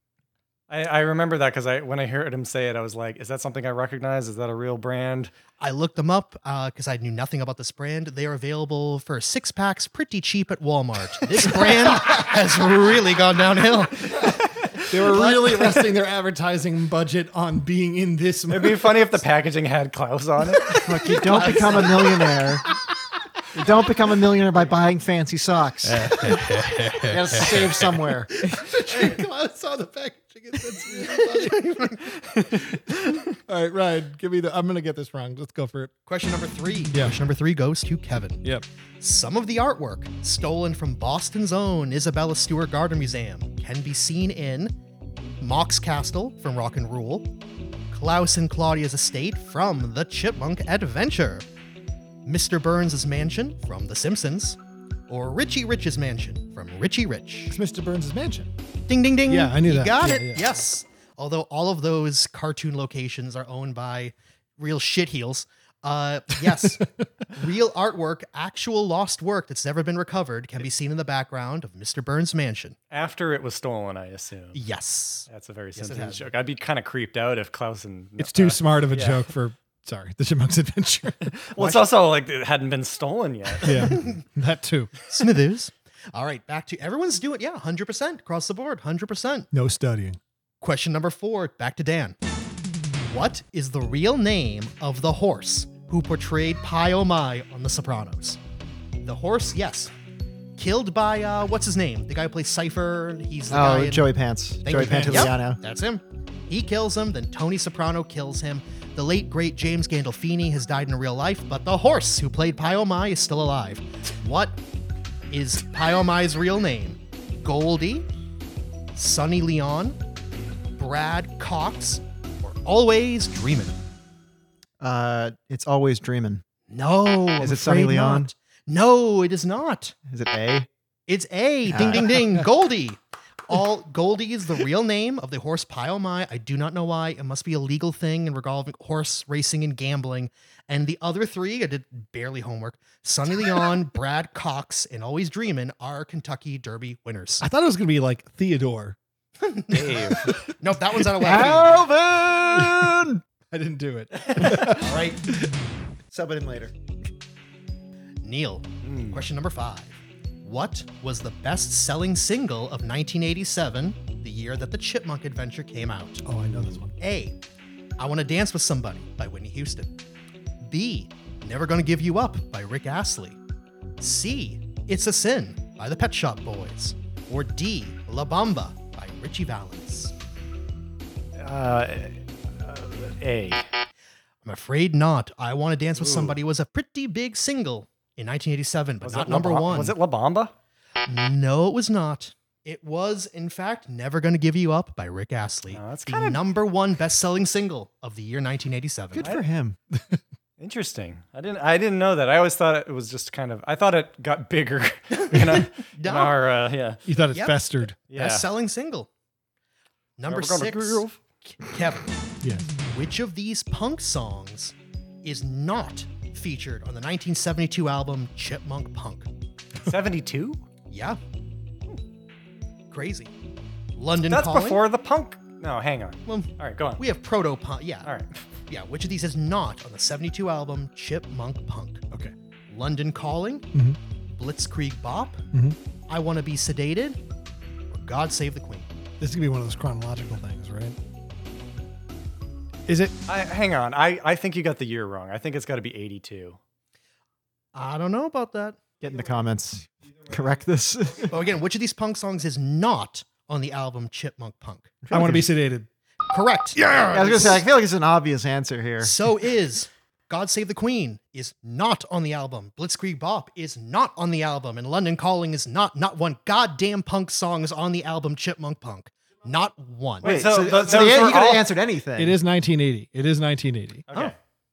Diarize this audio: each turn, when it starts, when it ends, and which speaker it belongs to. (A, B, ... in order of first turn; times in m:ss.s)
0:00.7-0:05.3 A
0:05.6-0:14.4 B
0:14.9-0:19.0 C
0:15.1-0:15.8 B
0:18.5-0:21.9 A
0:20.8-0:22.6 D
0:21.3-0:22.1 B
0:23.5-0:26.2 D
0:25.9-0:27.8 C
0:26.2-0:27.2 B
0:27.1-0:28.3 D
0:28.4-0:31.7 C
0:30.8-0:32.0 B
0:33.4-0:35.9 C
0:36.1-0:38.4 B
0:39.0-0:44.7 B
0:45.4-0:47.3 B
0:47.9-0:51.4 B
0:52.2-0:57.6 B
0:57.5-0:58.5 C
0:58.9-1:12.8 B
0:59.3-1:00.6 C
1:12.9-1:14.6 A
1:14.5-1:16.2 B
1:15.3-1:19.3 A
1:18.2-1:21.8 C
1:21.5-1:24.0 A
1:23.6-1:24.9 C
1:23.7-1:24.2 B
1:25.1-1:29.5 B
1:29.5-1:30.2 C
1:30.6-1:32.2 B
1:33.1-1:38.4 B
1:39.0-1:39.9 B
1:40.6-1:44.1 B
1:43.5-1:45.6 D
1:44.6-1:54.6 B
1:44.8-1:45.3 C
1:55.3-1:58.0 B
1:58.9-2:00.0 B
2:00.8-2:03.8 B
2:04.8-2:06.4 D
2:06.7-2:09.9 B
2:07.4-2:08.3 D
2:10.1-2:10.7 D
2:11.1-2:27.4 B
2:11.7-2:12.2 D
2:27.4-2:29.0 C
2:29.4-2:31.8 B
2:29.7-2:30.4 A
2:31.2-2:33.2 D
2:32.5-2:35.5 C
2:34.3-2:34.7 A
2:34.7-2:35.2 B
2:36.1-2:36.7 D
2:38.2-2:46.2 B
2:38.8-2:39.3 A
2:46.2-2:46.9 C
2:47.0-2:47.4 B
2:48.0-2:49.9 B
2:50.6-2:53.4 B
2:54.0-3:00.1 B
3:01.4-3:03.7 A
3:04.4-3:10.0 B
3:06.0-3:06.4 A
3:09.0-3:10.5 A
3:11.1-3:19.3 B
3:15.7-3:16.4 A
3:19.1-3:19.8 D
3:20.6-3:27.0 A
3:25.2-3:26.4 B
3:27.0-3:27.9 C
3:27.3-3:29.1 B
3:28.1-3:28.5 A
3:30.2-3:32.1 B
3:30.3-3:31.2 A
3:32.4-3:32.7 C
3:32.9-3:39.3 B
3:39.8-3:40.6 A
3:40.9-3:41.2 B
3:42.9-3:43.3 B
3:44.0-3:44.8 B
3:44.3-3:47.0 A
3:46.3-3:48.1 B
3:48.0-3:48.3 A
3:48.7-3:52.0 B
3:52.7-3:53.7 B
3:54.3-3:55.4 B
3:56.1-3:57.2 B
3:57.9-3:58.9 B
3:59.2-4:01.0 C
4:02.9-4:03.1 C
4:03.3-4:06.6 A
4:07.7-4:08.8 B
4:09.0-4:11.4 D
4:11.3-4:15.0 B
4:15.0-4:15.5 D
4:15.1-4:15.9 C
4:16.3-4:17.6 B
4:17.1-4:19.2 D
4:19.0-4:30.4 B
4:30.2-4:31.7 A
4:30.2-4:32.4 D
4:32.2-4:34.0 C
4:34.1-4:34.3 A